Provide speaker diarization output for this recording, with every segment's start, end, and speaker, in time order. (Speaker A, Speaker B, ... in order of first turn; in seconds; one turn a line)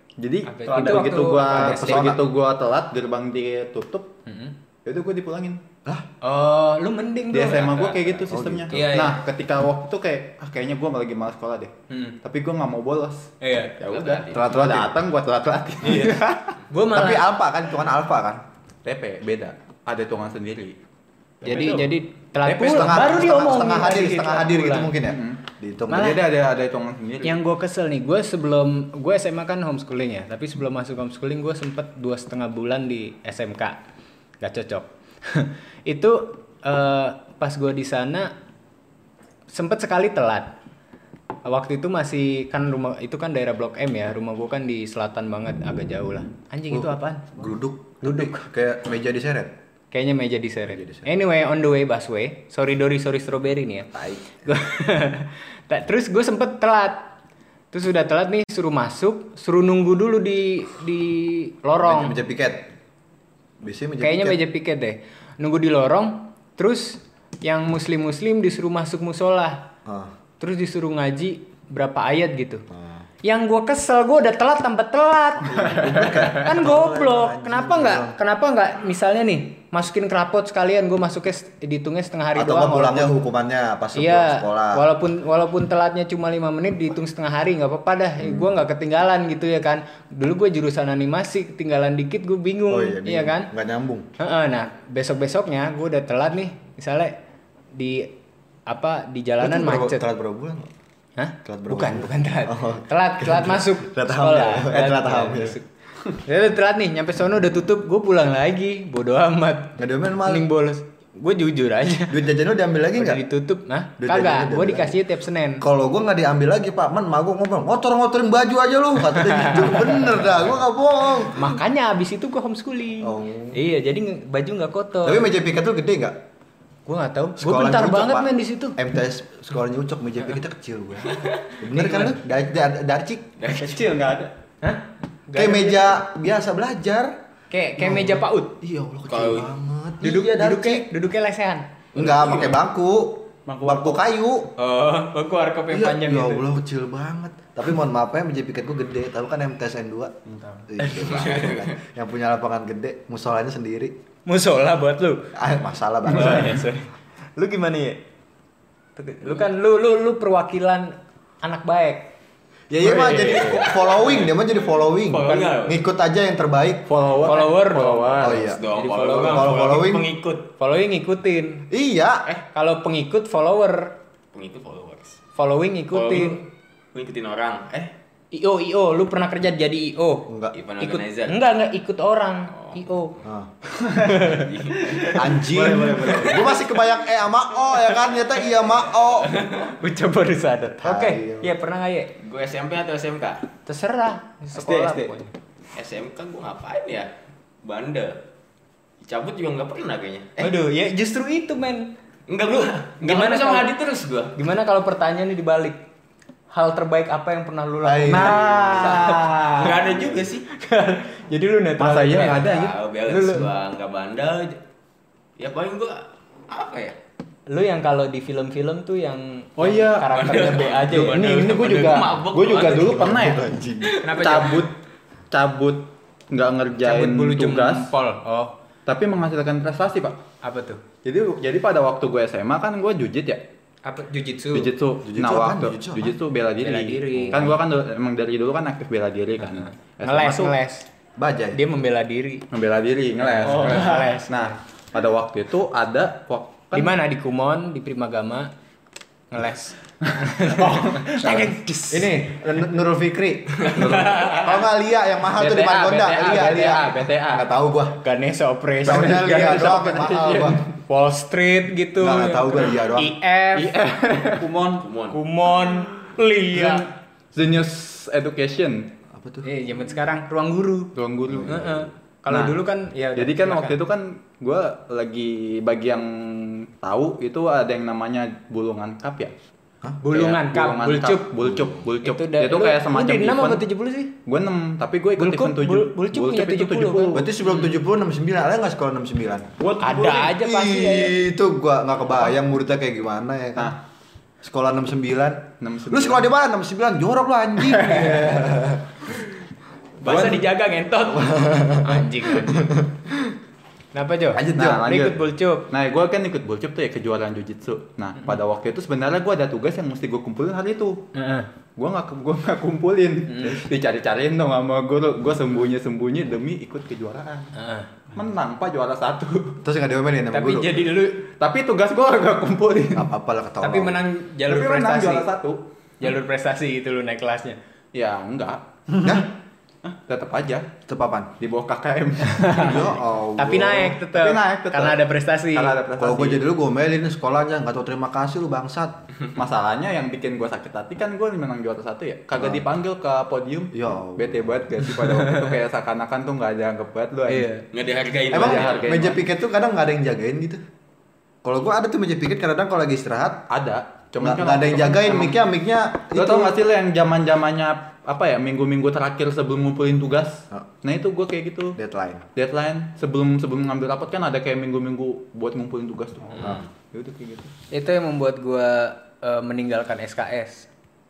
Speaker A: 0.2-4.1
Speaker B: 0.4-2.2
Speaker C: 0.7-2.2
Speaker B: 4.3-4.5
Speaker A: 4.8-5.6
Speaker B: 6.2-9.2
Speaker A: 7.3-16.2
Speaker C: 8.3-8.9
Speaker B: 11.9-12.2
Speaker B: 13.4-14.1
Speaker D: 13.9-14.4
Speaker C: 14.3-15.0
Speaker B: 15.8-17.3
Speaker C: 16.9-18.4
Speaker A: 18.9-20.8
Speaker B: 21.4-25.0
Speaker E: 21.4-21.9
Speaker A: 22.4-23.4
Speaker C: 22.6-26.2
Speaker A: 25.1-27.4
Speaker B: 25.9-26.2
Speaker B: 27.2-33.8
Speaker B: 34.4-38.3
Speaker B: 39.5-40.5
Speaker B: 41.5-47.4
Speaker C: 46.7-49.5
Speaker B: 48.0-48.4
Speaker B: 49.9-57.1
Speaker C: 50.7-51.1
Speaker C: 53.9-54.2
Speaker B: 57.7-62.2
Speaker C: 61.8-62.7
Speaker C: 63.6-64.4
Speaker B: 64.0-69.7
Speaker C: 69.8-70.1
Speaker B: 70.4-72.6
Speaker C: 72.7-73.0
Speaker B: 73.2-83.1
Speaker C: 75.4-78.2
Speaker A: 75.5-76.5
Speaker C: 82.3-84.8
Speaker B: 84.0-93.5
Speaker C: 88.2-88.5
Speaker C: 92.7-94.1
Speaker B: 94.2-97.2
Speaker B: 97.7-98.1
Speaker B: 98.7-100.0
Speaker C: 99.4-100.7
Speaker B: 101.2-112.2
Speaker C: 101.5-105.6
Speaker C: 109.8-110.5
Speaker C: 112.1-113.2
Speaker B: 113.0-115.6
Speaker C: 114.0-115.0
Speaker C: 115.6-121.6
Speaker B: 119.2-120.2
Speaker B: 121.3-125.3
Speaker C: 123.0-123.6
Speaker C: 125.0-126.2
Speaker B: 126.9-128.8
Speaker C: 127.4-133.4
Speaker B: 131.7-132.2
Speaker D: 133.4-133.8
Speaker E: 133.5-134.3
Speaker B: 134.6-136.0
Speaker C: 135.3-137.2
Speaker B: 137.5-138.6
Speaker C: 137.8-140.9
Speaker D: 139.1-139.5
Speaker B: 140.0-141.7
Speaker C: 141.9-144.5
Speaker E: 143.5-144.0
Speaker B: 144.6-146.5
Speaker C: 145.7-150.1
Speaker E: 150.3-150.6
Speaker C: 150.7-154.0
Speaker D: 151.0-151.7
Speaker B: 154.3-155.3
Speaker C: 155.3-156.6
Speaker B: 156.1-158.0
Speaker B: 159.0-162.1
Speaker C: 162.7-166.9
Speaker A: 162.8-163.7
Speaker B: 162.9-163.7
Speaker D: 163.4-164.3
Speaker D: 165.1-165.8
Speaker A: 166.9-168.5
Speaker B: 167.2-171.7
Speaker C: 168.2-170.2
Speaker D: 168.4-170.0
Speaker C: 171.7-172.3
Speaker B: 172.5-174.0
Speaker D: 174.3-175.2
Speaker B: 175.4-176.4
Speaker D: 175.9-177.9
Speaker B: 178.3-183.2
Speaker C: 180.3-180.6
Speaker D: 180.5-181.4
Speaker C: 183.2-183.5
Speaker B: 183.9-184.5
Speaker D: 184.2-185.4
Speaker E: 185.0-186.4
Speaker C: 185.1-189.4
Speaker B: 186.0-186.4
Speaker D: 189.0-189.7
Speaker B: 189.7-192.1
Speaker C: 190.8-191.5
Speaker D: 192.2-193.5
Speaker B: 193.7-195.3
Speaker E: 194.5-195.2
Speaker D: 195.7-197.1
Speaker D: 197.6-198.2
Speaker D: 199.0-200.5
Speaker B: 200.4-201.9
Speaker D: 202.3-204.3
Speaker B: 202.4-203.7
Speaker B: 204.3-205.8
Speaker B: 206.5-212.5
Speaker C: 207.8-209.3
Speaker A: 208.1-209.8
Speaker D: 208.8-210.4
Speaker A: 211.8-212.8
Speaker D: 212.3-214.6
Speaker B: 213.1-213.5
Speaker D: 215.4-217.0
Speaker B: 217.5-221.7
Speaker A: 219.6-223.5
Speaker D: 220.1-223.1
Speaker C: 222.6-224.0
Speaker D: 223.8-224.4
Speaker B: 224.0-224.7
Speaker A: 224.2-224.7
Speaker A: 225.3-227.9
Speaker B: 226.8-228.6
Speaker A: 228.9-230.2
Speaker B: 230.4-230.8
Speaker A: 231.0-233.4
Speaker B: 233.8-234.7
Speaker A: 234.5-240.6
Speaker C: 235.0-236.2
Speaker B: 236.6-237.5
Speaker B: 239.5-240.9
Speaker C: 241.2-241.6
Speaker B: 241.5-242.4
Speaker A: 242.5-246.9
Speaker B: 243.2-244.6
Speaker E: 243.5-244.2
Speaker B: 246.7-248.5
Speaker B: 249.3-252.3
Speaker A: 250.4-251.4
Speaker C: 251.9-258.0
Speaker D: 253.7-254.5
Speaker A: 255.4-257.4
Speaker B: 256.2-256.8
Speaker D: 256.4-256.8
Speaker B: 258.0-260.1
Speaker C: 258.8-260.6
Speaker A: 258.9-260.7
Speaker B: 260.8-263.8
Speaker C: 262.0-263.2
Speaker A: 263.6-264.7
Speaker E: 264.3-264.8
Speaker D: 264.7-265.2
Speaker B: 265.1-266.9
Speaker A: 266.5-268.9
Speaker C: 269.1-269.5
Speaker B: 269.4-270.9
Speaker A: 270.9-272.6
Speaker C: 271.3-271.8
Speaker B: 271.5-273.8
Speaker A: 273.2-279.3
Speaker B: 280.0-281.3
Speaker A: 280.1-283.6
Speaker C: 281.4-281.8
Speaker B: 282.0-284.1
Speaker A: 284.2-287.5
Speaker B: 285.2-287.2
Speaker C: 287.1-289.5
Speaker E: 289.6-290.3
Speaker B: 289.8-291.2
Speaker C: 290.2-293.8
Speaker C: 294.4-299.1
Speaker A: 295.6-296.3
Speaker B: 300.0-302.8
Speaker A: 300.1-300.4
Speaker C: 301.1-303.3
Speaker B: 303.9-305.7
Speaker C: 304.3-304.8
Speaker A: 304.4-311.0
Speaker B: 311.1-311.5
Speaker A: 311.8-317.5
Speaker B: 313.3-313.6
Speaker B: 317.6-317.9
Speaker A: 318.1-319.6
Speaker C: 319.6-320.9
Speaker B: 320.3-321.3
Speaker A: 321.3-323.1
Speaker C: 322.9-324.1
Speaker B: 323.6-325.3
Speaker A: 324.5-326.1
Speaker B: 326.0-327.6
Speaker A: 327.9-328.7
Speaker C: 329.0-329.3
Speaker A: 329.9-330.7
Speaker C: 330.9-331.3
Speaker A: 331.4-333.0
Speaker B: 332.5-332.7
Speaker C: 332.5-334.0
Speaker B: 333.4-335.8
Speaker A: 334.1-335.0
Speaker A: 335.5-336.4
Speaker C: 336.0-339.0
Speaker A: 339.4-347.5
Speaker C: 342.4-342.7
Speaker C: 343.7-344.7
Speaker B: 345.1-345.5
Speaker B: 347.3-347.6
Speaker D: 347.7-349.1
Speaker C: 348.3-350.6
Speaker A: 348.3-349.2
Speaker C: 351.4-353.5
Speaker A: 353.5-355.4
Speaker C: 354.2-356.6
Speaker A: 356.1-361.8
Speaker C: 361.8-362.3
Speaker A: 362.4-367.5
Speaker B: 367.7-370.7